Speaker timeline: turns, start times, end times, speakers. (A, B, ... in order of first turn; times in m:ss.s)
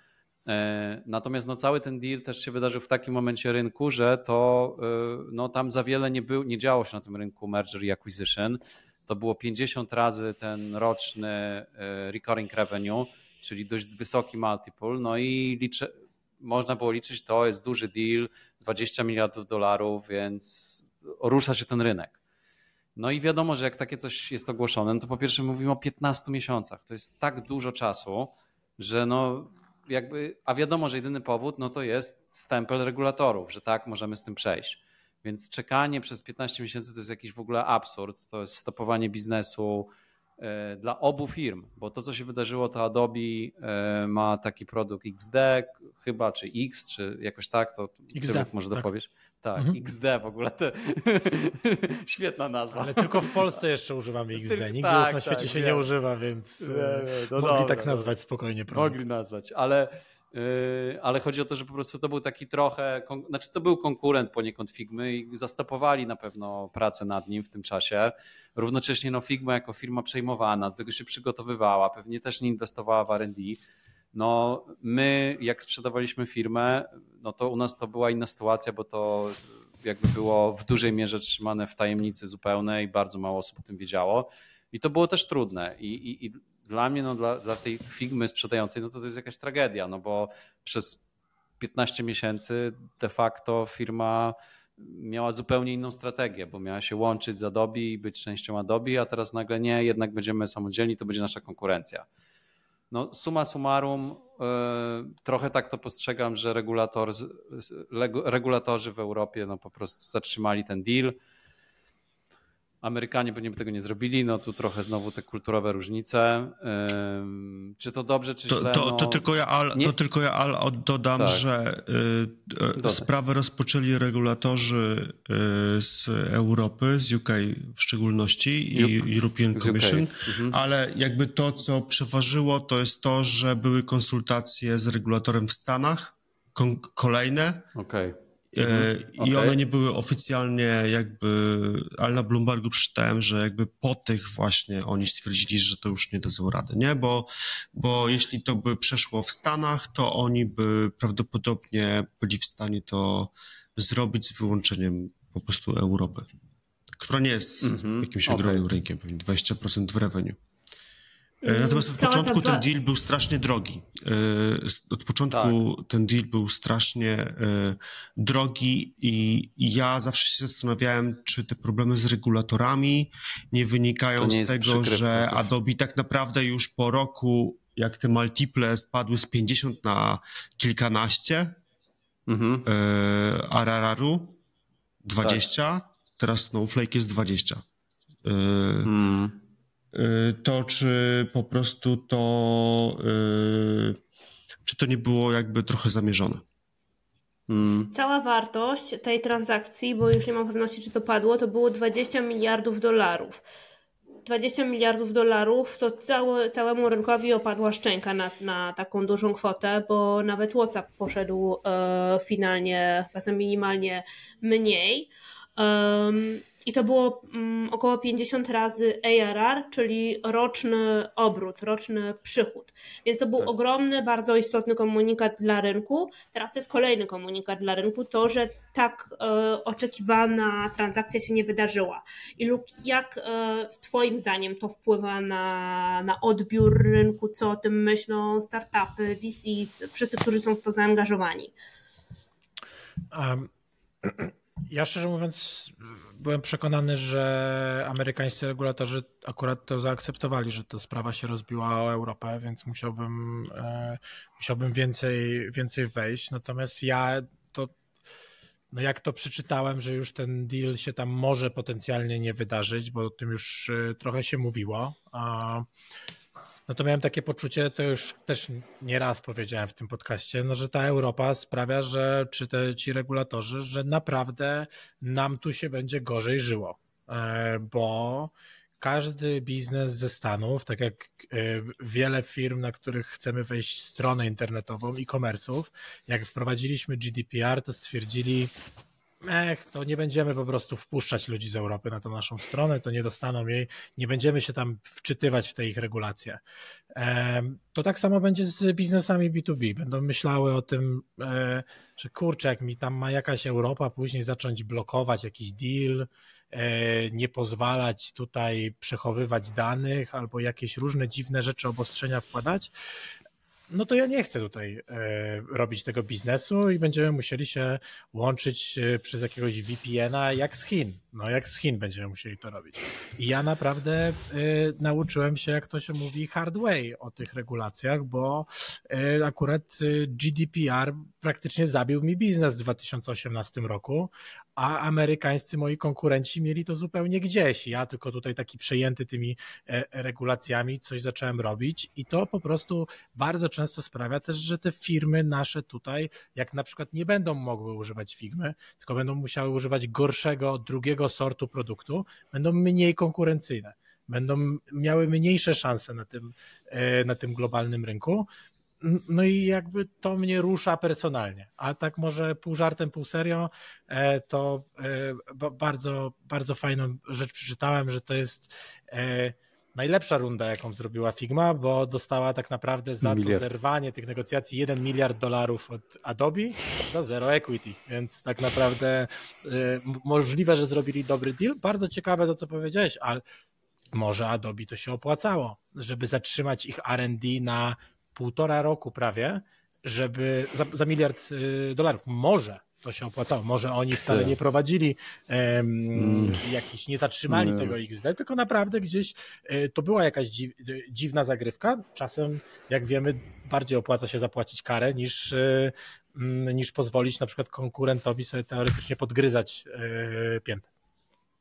0:00.4-0:22.2 A
0:23.0-0:53.4 A
0:48.1-0:48.9 B
0:52.7-0:59.0 B
0:54.4-0:55.8 A
0:56.6-0:58.1 A
0:58.7-1:13.6 A
1:14.1-1:31.0 A
1:31.6-1:42.0 A
1:42.9-1:51.1 A
1:52.8-1:59.2 A
1:58.5-2:17.7 C
2:01.2-2:01.4 A
2:02.8-2:03.1 A
2:08.8-2:09.0 A
2:09.5-2:10.6 A
2:17.8-2:19.6 A
2:18.5-2:36.3 C
2:37.0-2:40.4 C
2:37.6-2:38.6 A
2:41.4-2:42.6 D
2:41.4-3:01.6 C
2:45.3-2:45.6 A
2:54.2-2:55.5 A
3:02.3-3:02.6 A
3:02.6-3:04.4 C
3:05.0-3:07.6 C
3:08.2-3:08.9 C
3:08.8-3:09.4 A
3:09.9-3:14.0 C
3:14.6-3:16.4 C
3:17.5-3:17.9 A
3:17.9-3:23.4 D
3:24.2-4:01.5 D
4:03.1-4:03.5 B
4:04.0-4:17.7 B
4:18.7-4:25.7 B
4:26.7-4:48.5 B
4:49.2-4:56.4 B
4:56.9-5:12.7 B
5:13.7-5:58.3 B
5:58.8-6:23.2 B
6:13.0-6:13.4 A
6:23.9-6:50.7 B
6:34.0-6:34.4 A
6:35.9-6:36.4 A
6:37.3-6:37.8 A